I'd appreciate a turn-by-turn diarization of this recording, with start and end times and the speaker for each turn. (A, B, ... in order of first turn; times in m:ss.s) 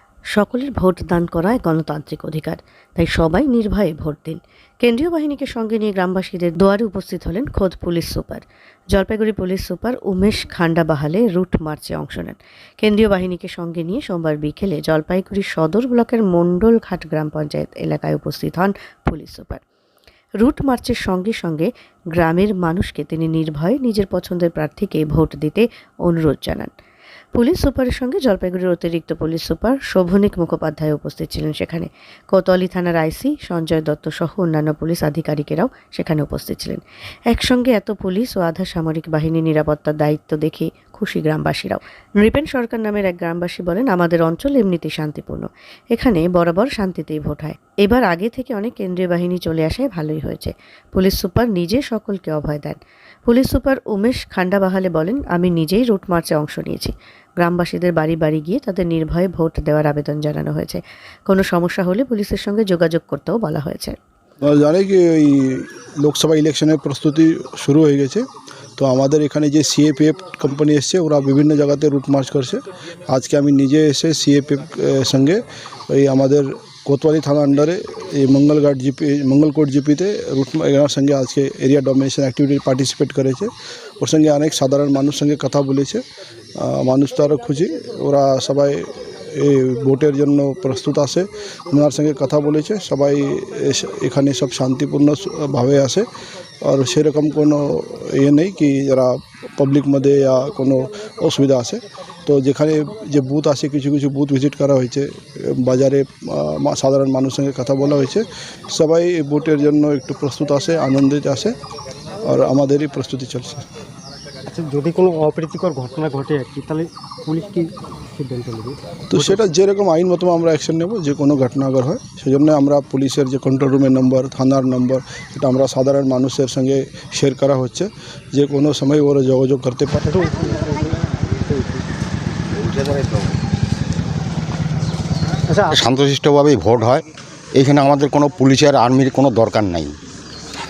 0:00.3-0:19.6 A
0:20.4-0:26.7 A
0:27.3-1:04.0 A
1:04.4-1:08.2 B
1:08.8-1:26.0 B
1:26.6-1:36.1 B
1:36.6-1:51.5 B
1:52.2-1:53.6 B
1:54.5-1:59.4 C
1:59.1-2:10.2 B
2:10.1-2:11.8 C
2:12.5-2:13.3 D
2:15.5-2:15.8 C
2:15.7-2:19.9 D